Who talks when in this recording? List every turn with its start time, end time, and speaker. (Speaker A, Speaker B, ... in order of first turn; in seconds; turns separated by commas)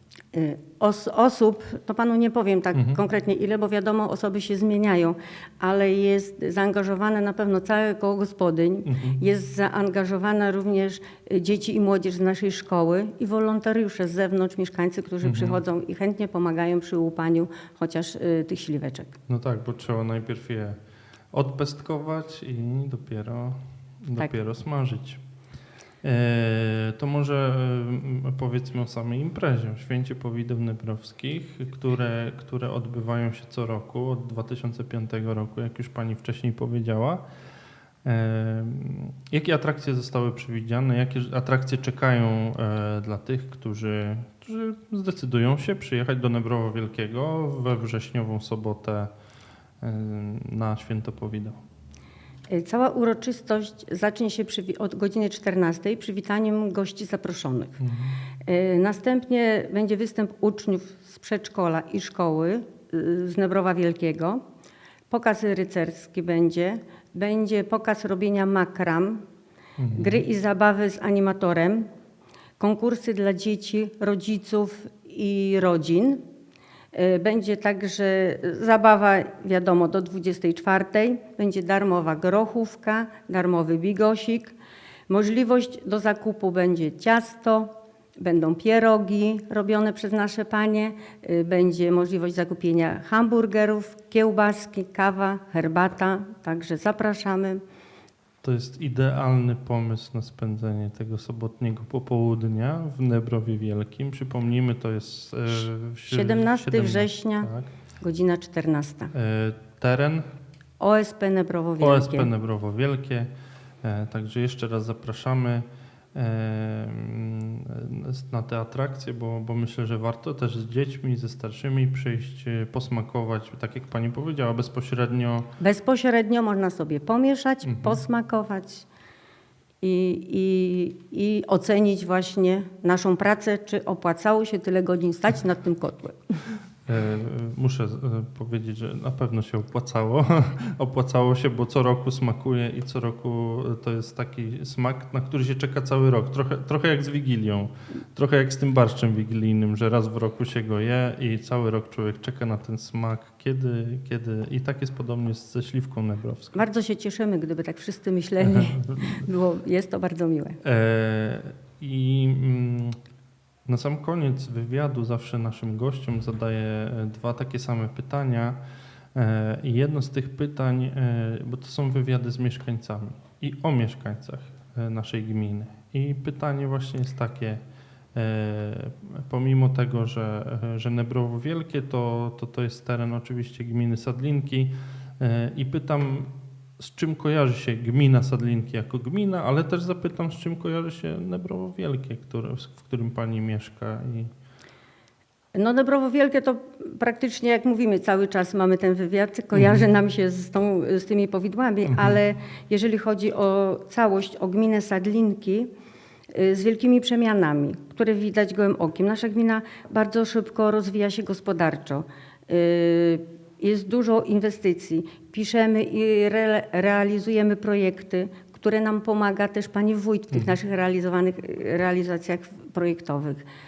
Speaker A: 0.3-19.2, Speaker B: 2.7-3.0, Speaker B: 8.9-9.2, Speaker B: 15.2-15.6, Speaker B: 19.3-20.8, Speaker B: 21.3-25.2, Speaker B: 26.0-37.2, Speaker B: 38.0-49.1, Speaker B: 49.8-51.6, Speaker A: 52.5-57.8, Speaker B: 57.8-58.2, Speaker A: 58.5-64.4, Speaker A: 65.1-69.2, Speaker B: 69.8-70.2, Speaker A: 69.9-71.9, Speaker A: 72.6-76.2, Speaker A: 76.9-84.6, Speaker A: 85.1-97.6, Speaker B: 98.4-107.7, Speaker A: 106.1-109.1, Speaker B: 109.1-110.2, Speaker A: 110.8-112.3, Speaker B: 111.8-113.3, Speaker B: 113.8-125.5, Speaker A: 125.6-128.9, Speaker B: 127.6-128.0, Speaker A: 129.8-136.2, Speaker B: 136.9-156.6, Speaker A: 156.5-160.6, Speaker B: 158.4-159.2, Speaker B: 160.6-163.0, Speaker B: 163.7-168.6, Speaker B: 169.1-177.6, Speaker B: 178.1-194.3, Speaker A: 195.6-205.7, Speaker B: 199.5-199.9, Speaker B: 201.9-202.2, Speaker A: 206.3-223.4